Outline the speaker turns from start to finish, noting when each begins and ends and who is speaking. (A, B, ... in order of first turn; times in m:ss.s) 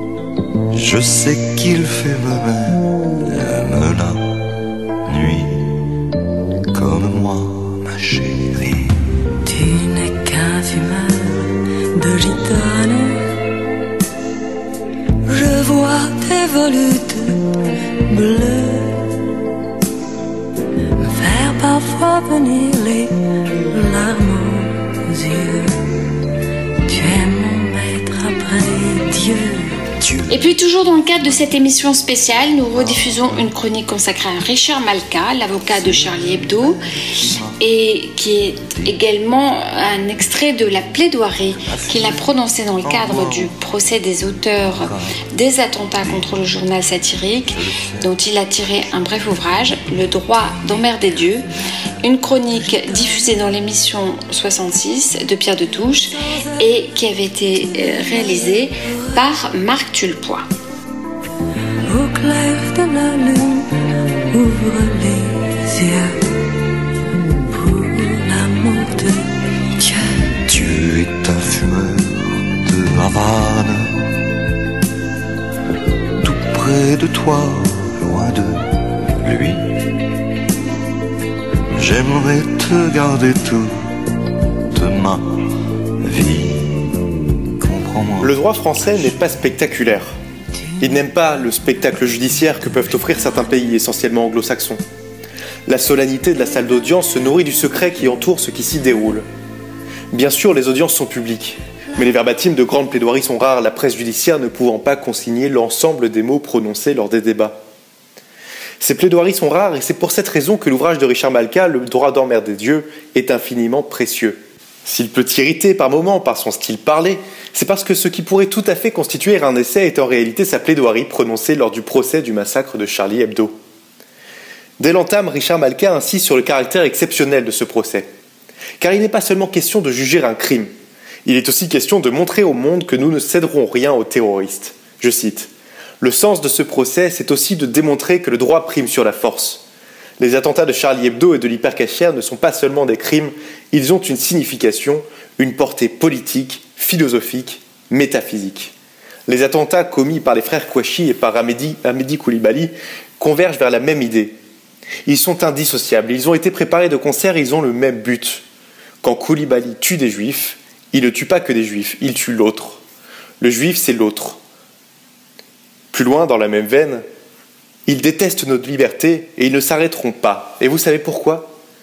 0:00.7-0:04.3 A
0:05.0-0:05.8 A
0:06.7-0:08.9 A
0:09.5-0:13.2 B
0:15.3-0:17.4 B
0:18.1-0:19.0 B
0:21.1-0:23.1 B
0:23.7-0:25.8 B
0:26.9-0:29.7 B
0:30.0-0:33.6 A
0:30.3-0:36.8 C
0:35.6-0:37.6 A
0:37.6-0:51.5 C
0:38.6-0:39.1 A
0:41.5-0:45.2 A
0:46.0-0:46.6 A
0:47.5-0:49.8 A
0:50.6-0:51.4 A
0:52.0-1:00.5 C
1:01.9-1:06.2 B
1:07.5-1:09.3 B
1:09.8-1:10.1 B
1:10.5-1:14.1 A
1:16.2-1:18.6 A
1:19.2-1:19.8 A
1:21.7-1:23.7 A
1:24.7-1:25.5 A
1:26.0-1:26.9 A
1:27.6-1:29.2 A
1:28.2-1:30.2 D
1:30.8-1:34.8 D
1:35.7-1:39.3 D
1:40.1-1:47.6 D
1:48.8-2:03.6 D
2:04.8-2:08.1 D
2:08.8-2:10.7 D
2:11.2-2:15.5 D
2:16.0-2:19.6 D
2:20.2-2:28.7 D
2:29.3-2:34.4 D
2:35.1-2:38.4 D
2:39.0-2:42.8 D
2:43.4-2:44.4 D
2:45.9-2:47.0 D
2:47.9-2:51.5 D